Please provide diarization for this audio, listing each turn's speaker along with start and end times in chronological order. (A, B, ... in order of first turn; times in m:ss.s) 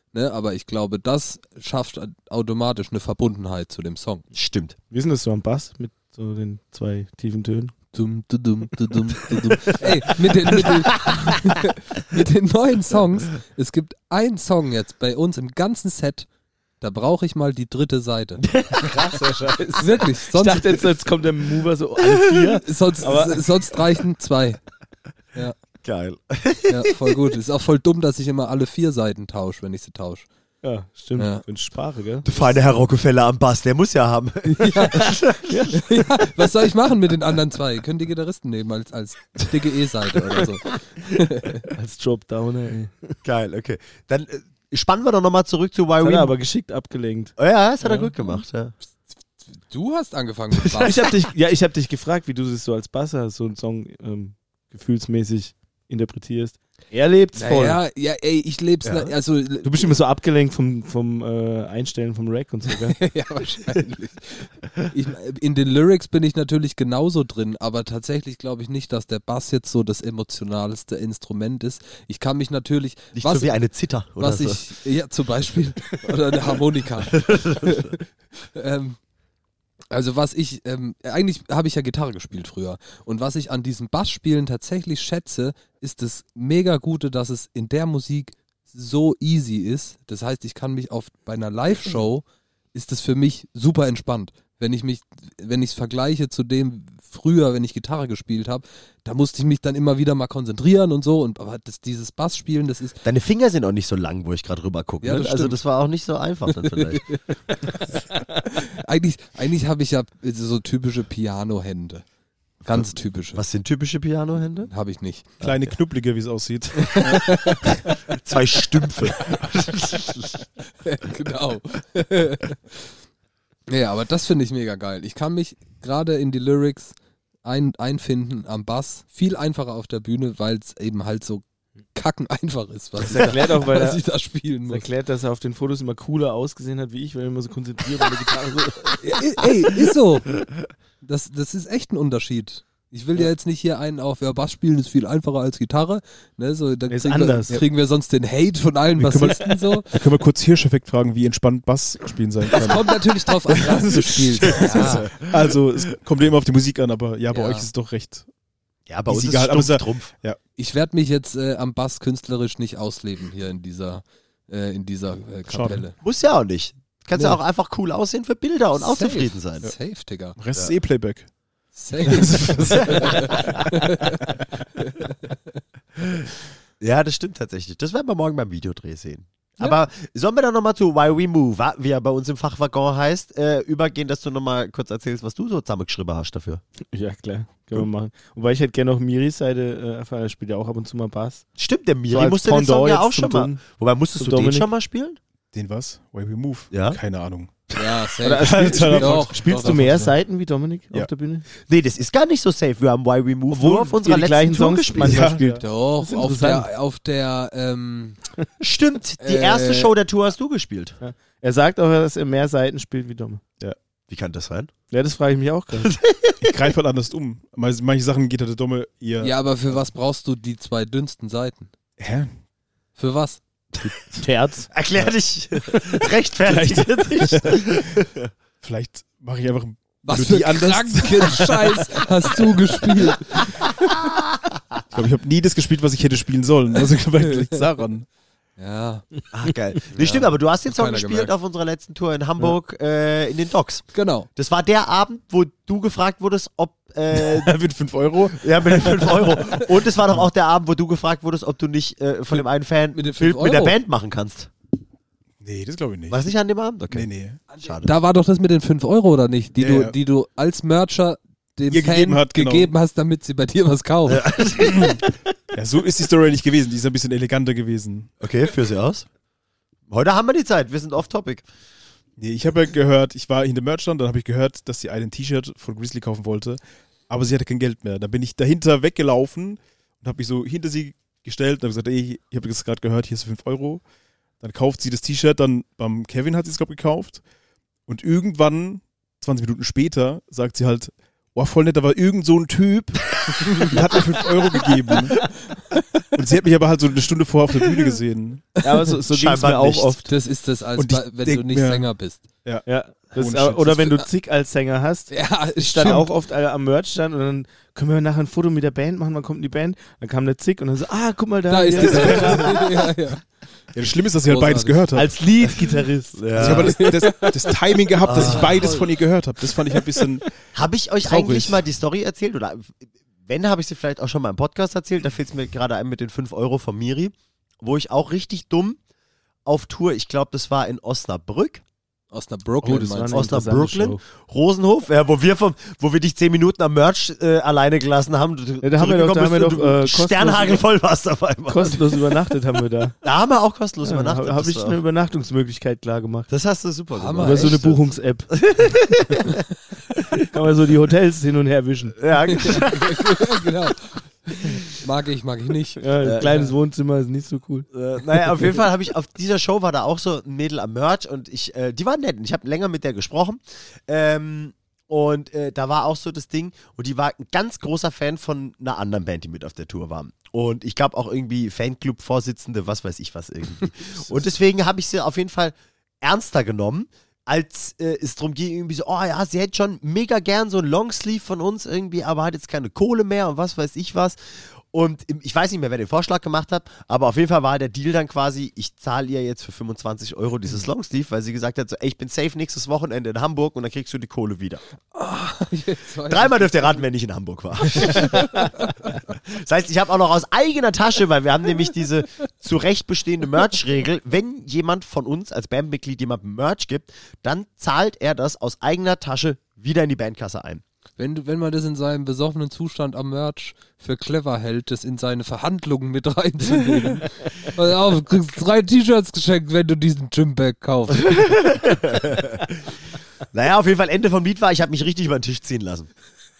0:00.1-0:04.2 A
0:04.3-0:04.8 B
0:04.9-0:07.7 C
0:07.9-0:16.3 A
0:09.6-0:11.5 B
0:16.8-0:18.4 A
0:18.4-0:19.1 B
0:18.8-0:23.5 C
0:19.8-0:20.8 A
0:22.6-0:24.6 A
0:25.8-0:27.2 B
0:26.7-0:30.3 A
0:30.6-0:32.5 C
0:31.2-0:31.4 A
0:32.2-0:35.7 B
0:34.5-0:35.2 A
0:35.5-0:35.8 C
0:35.7-0:41.6 A
0:41.7-0:43.1 C
0:43.2-0:46.4 B
0:46.0-0:48.1 C
0:47.4-0:48.7 B
0:49.6-0:51.1 A
0:50.7-0:57.8 C
0:57.3-1:00.0 A
0:58.8-0:59.1 B
0:59.6-1:03.0 C
1:02.8-1:13.5 A
1:13.1-1:14.6 B
1:14.2-1:18.0 A
1:17.1-1:17.9 B
1:18.5-1:19.0 A
1:19.9-1:43.0 A
1:43.0-1:47.0 B
1:45.0-1:45.6 A
1:46.5-1:47.8 A
1:48.3-1:52.0 A
1:52.6-1:53.4 A
1:52.7-1:54.7 B
1:54.7-1:55.3 A
1:55.4-1:57.6 D
1:56.8-1:57.9 A
1:58.2-2:00.3 B
2:00.8-2:02.9 A
2:03.7-2:11.4 A
2:11.9-2:14.8 A
2:13.0-2:13.3 B
2:13.0-2:14.0 C
2:14.7-2:19.0 C
2:19.0-2:20.4 A
2:21.0-2:29.9 A
2:26.9-2:27.6 C
2:29.0-2:33.0 D
2:32.5-2:35.1 A
2:33.6-2:38.2 D
2:34.5-2:35.5 B
2:37.3-2:37.7 A
2:38.9-2:40.1 B
2:39.1-2:40.4 D
2:40.6-2:46.0 A
2:45.5-2:45.8 D
2:46.0-2:49.7 B
2:48.8-2:50.4 A
2:50.4-2:51.3 D
2:51.7-2:55.1 A
2:52.0-2:53.7 D
2:52.7-2:53.5 B
2:56.8-3:06.6 B
3:06.9-3:11.4 C
3:11.6-3:15.2 B
3:12.1-3:13.6 C
3:14.1-3:14.7 C
3:15.5-3:17.6 D
3:16.7-3:17.0 B
3:17.8-3:20.1 A
3:18.2-3:21.4 C
3:18.4-3:20.0 D
3:21.6-3:25.3 B
3:23.5-3:26.7 C
3:25.0-3:25.6 D
3:25.6-3:28.2 A
3:28.6-3:31.0 B
3:29.2-3:29.9 A
3:31.0-3:33.4 C
3:34.1-3:34.7 B
3:34.9-3:35.9 C
3:35.8-3:36.5 B
3:36.4-3:39.3 D
3:39.2-3:41.7 A
3:42.0-3:42.3 D
3:43.0-3:43.4 A
3:44.1-3:44.7 C
3:44.7-3:48.3 B
3:46.5-3:47.8 D
3:48.6-3:51.9 D
3:50.0-3:53.9 A
3:54.9-3:58.0 D
3:58.6-3:59.2 A
3:59.3-4:07.5 B
3:59.9-4:01.3 A
4:03.9-4:04.3 A
4:07.1-4:09.4 D
4:08.3-4:14.5 B
4:12.9-4:13.7 A
4:15.4-4:16.2 D
4:16.1-4:17.9 B
4:16.9-4:17.4 D
4:17.5-4:24.3 A
4:19.6-4:19.9 D
4:21.7-4:22.7 D
4:24.1-4:25.1 B
4:24.7-4:25.0 D
4:25.5-4:28.1 D
4:28.2-4:29.1 B
4:29.9-4:31.4 B
4:32.2-4:43.8 D
4:44.4-4:47.2 D
4:47.9-4:55.2 D
4:56.1-4:58.5 D
4:58.6-5:00.1 C
4:59.1-5:00.0 B
5:00.1-5:02.2 A
5:00.8-5:01.9 D
5:02.4-5:03.9 D
5:02.6-5:12.7 C
5:05.1-5:06.1 A
5:11.5-5:13.2 A
5:11.9-5:12.4 D
5:13.7-5:15.1 D
5:14.2-5:14.9 A
5:14.9-5:16.2 C
5:16.1-5:16.8 B
5:16.3-5:20.3 D
5:16.4-5:18.9 A
5:18.0-5:18.8 B
5:20.5-5:28.8 B
5:21.0-5:21.6 D
5:29.4-5:31.6 B
5:32.1-5:33.3 A
5:32.6-5:34.0 C
5:33.1-5:41.9 B
5:38.6-5:40.6 C
5:41.5-5:43.0 C
5:43.0-5:44.8 B
5:43.8-5:46.3 C
5:46.3-5:49.4 B
5:46.9-5:47.8 A
5:47.2-5:48.4 C
5:50.3-5:52.0 C
5:52.0-5:53.4 B
5:52.3-5:56.5 A
5:55.8-5:58.5 C
5:56.0-5:56.5 B
5:57.7-6:24.2 B
6:24.7-6:34.6 B
6:34.9-6:36.8 A
6:36.1-6:38.4 B
6:37.7-6:38.9 A
6:39.1-6:50.6 B
6:51.0-7:01.4 A
7:01.0-7:02.7 B
7:03.3-7:05.9 B